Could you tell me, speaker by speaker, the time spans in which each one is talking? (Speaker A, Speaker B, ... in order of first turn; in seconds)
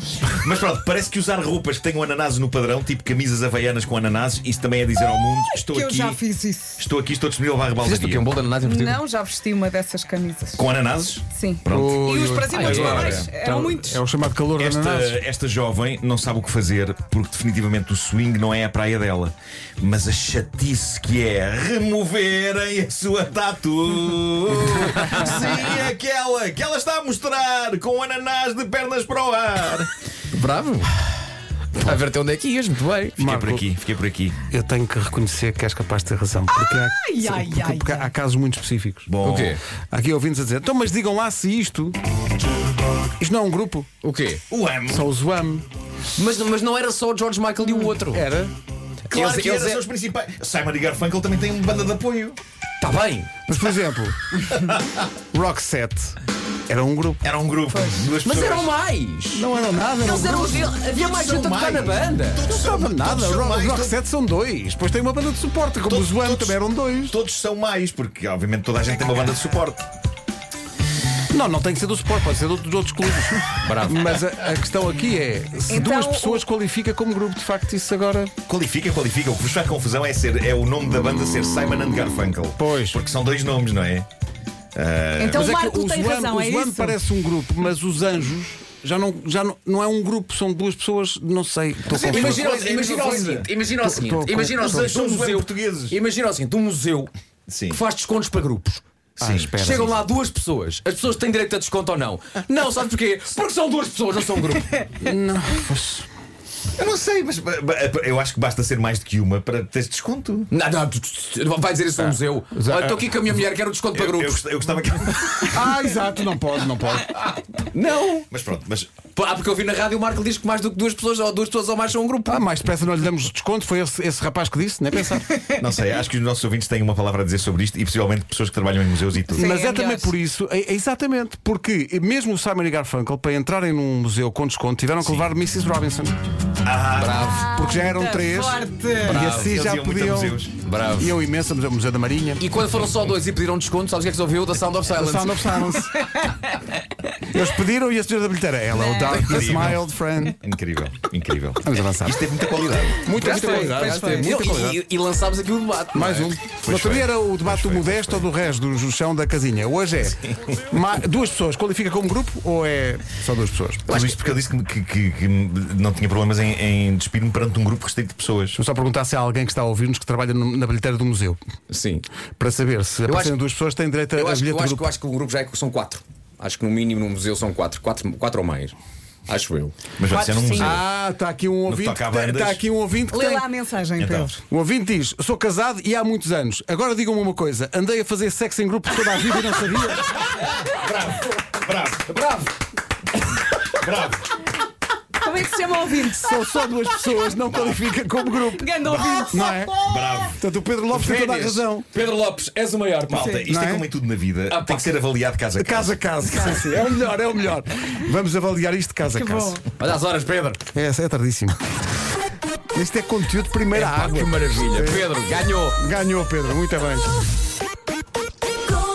Speaker A: 0.2-6.2, 6.8-8.3, 10.6-13.3, 14.6-29.9, 33.2-34.4, 39.1-39.6, 44.5-45.1, 49.1-52.4, 54.5-54.9, 57.2-58.7, 60.7-64.0, 65.8-69.8, 78.5-84.1, 84.7-85.5, 91.9-93.5, 94.5-96.0, 97.5-97.8, 99.2-100.0, 106.8-110.5, 113.9-115.8, 118.3-118.9, 125.5-129.5, 136.6-137.3, 139.2-140.5, 149.1-153.3, 156.6-158.3, 163.9-168.6, 180.0-180.8, 181.7-182.6, 184.0-184.3, 190.0-192.1, 193.7-194.3, 197.5-197.8, 198.9-200.4, 203.1-206.1
Speaker B: 5.5-6.8, 8.6-10.7, 11.3-14.0, 36.7-38.1, 57.7-58.1, 75.7-76.4, 85.2-87.0, 129.3-130.1, 137.4-139.3, 145.8-146.6, 148.7-149.5, 153.3-154.3, 180.1-180.8, 183.1-184.4, 195.2-196.3, 198.3-199.7, 203.2-203.4, 206.3-206.6, 209.1-209.6
Speaker C: 7.8-9.0, 12.5-14.0, 24.9-25.8, 30.3-31.0, 31.7-33.2, 39.2-39.6, 44.0-44.4, 46.1-48.2, 49.0-49.8, 52.8-53.3, 58.2-59.5, 60.0-62.5, 73.6-74.1, 91.9-97.1, 97.7-98.8, 99.6-104.7, 110.5-114.4, 117.2-118.2, 119.1-122.4, 136.9-137.5, 139.0-139.6, 140.6-141.1, 142.4-145.7, 153.2-156.3, 163.9-164.3, 171.7-172.0, 173.0-173.4, 174.2-178.8, 179.3-179.7, 192.1-192.5, 200.9-203.4, 204.5-205.0, 209.8-210.6, 213.7-215.8
Speaker D: 11.7-13.0, 13.8-15.2, 33.2-33.7, 34.5-39.1, 39.9-42.0, 43.2-43.9, 44.9-45.6, 48.1-48.5, 53.5-54.2, 55.3-56.1, 56.7-57.2, 59.3-60.7, 62.5-67.1, 71.3-78.3, 82.6-83.0, 85.3-92.4, 93.8-95.1, 99.2-100.0, 105.0-106.1, 112.5-113.1, 115.5-117.1, 122.3-125.3, 129.3-136.2, 137.4-140.4, 141.0-142.4, 144.9-146.1, 147.3-150.4, 151.6-152.2, 153.0-154.8, 155.9-163.9, 168.5-171.4, 172.4-174.9, 180.6-183.5, 184.5-190.1, 196.0-201.9, 203.5-203.8, 205.6-209.6, 210.7-211.6, 212.7-215.1, 215.7-217.1